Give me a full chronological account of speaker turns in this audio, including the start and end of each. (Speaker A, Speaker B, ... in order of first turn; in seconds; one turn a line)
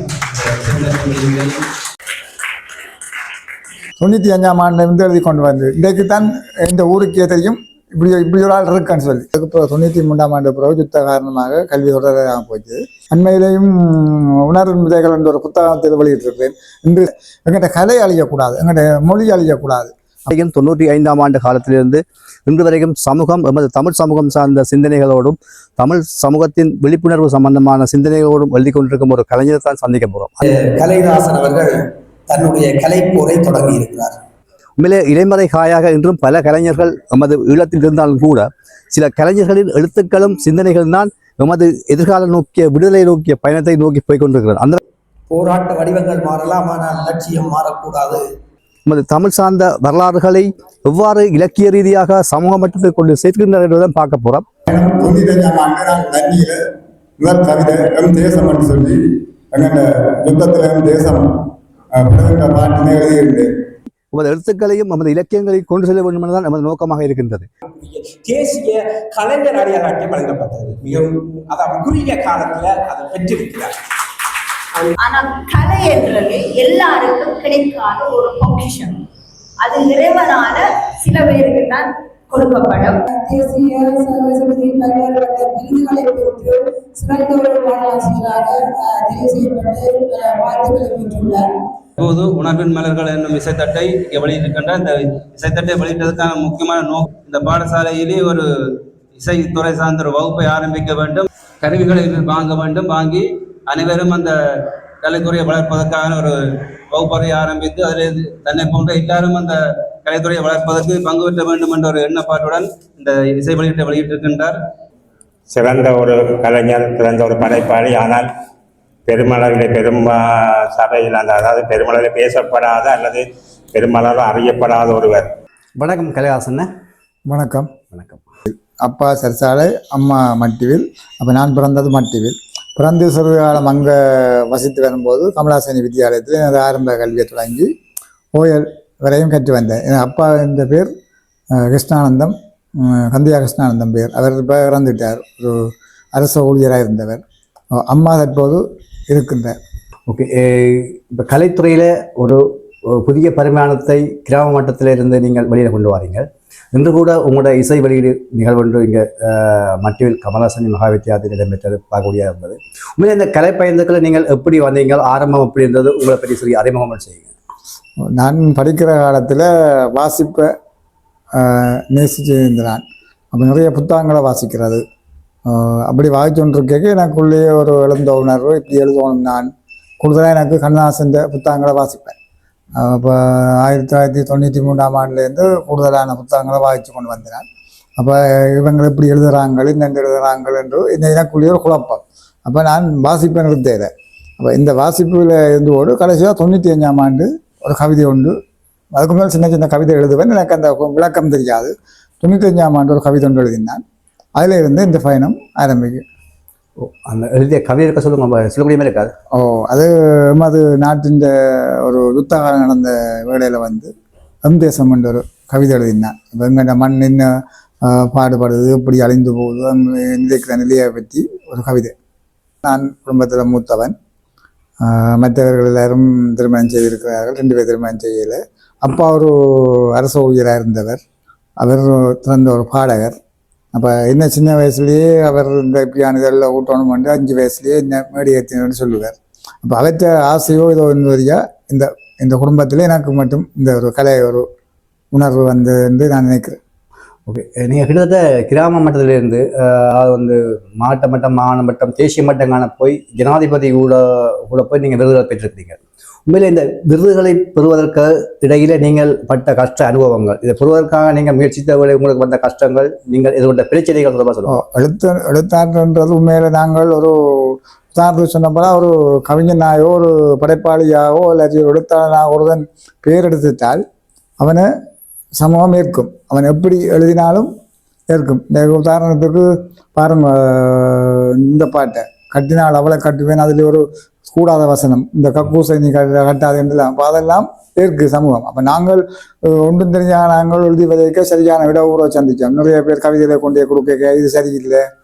Speaker A: 0.4-1.5
Speaker B: 4.0-20.3
Speaker C: 20.3-30.4
Speaker A: 30.6-31.8
Speaker A: 32.3-34.1
Speaker C: 34.8-44.8
Speaker A: 45.3-48.2
Speaker C: 48.9-54.4
Speaker B: 54.7-56.6
Speaker B: 57.2-59.0
Speaker B: 59.5-61.3
Speaker B: 61.9-63.5
Speaker C: 64.1-67.5
Speaker A: 67.8-73.7
Speaker D: 75.0-79.0
Speaker D: 79.6-83.0
Speaker E: 83.1-91.5
Speaker F: 92.0-98.5
Speaker F: 99.1-106.4
Speaker F: 106.9-114.5
Speaker G: 115.5-118.3
Speaker G: 119.0-125.3
Speaker C: 125.8-126.7
Speaker B: 127.3-127.7
Speaker C: 127.9-128.2
Speaker B: 128.8-137.7
Speaker B: 138.3-140.9
Speaker B: 141.5-145.6
Speaker B: 146.1-147.2
Speaker B: 147.8-149.6
Speaker C: 150.1-167.3
Speaker B: 168.2-170.5
Speaker B: 171.4-172.8
Speaker B: 173.3-174.8
Speaker B: 175.5-179.5
Speaker B: 180.0-182.1
Speaker B: 182.8-187.4
Speaker B: 188.0-198.3
Speaker B: 198.9-201.7
Speaker B: 202.2-203.8
Speaker B: 204.4-206.0
Speaker C: 206.8-209.1
Speaker B: 209.3-213.9
Speaker B: 214.4-217.3
Speaker B: 217.8-221.9
Speaker B: 222.6-223.9
Speaker B: 224.8-231.0
Speaker B: 231.6-233.2
Speaker B: 233.7-244.4
Speaker B: 245.1-246.6
Speaker C: 247.3-264.6
Speaker B: 264.5-273.8
Speaker B: 274.4-274.7
Speaker B: 275.4-277.5
Speaker B: 278.1-294.8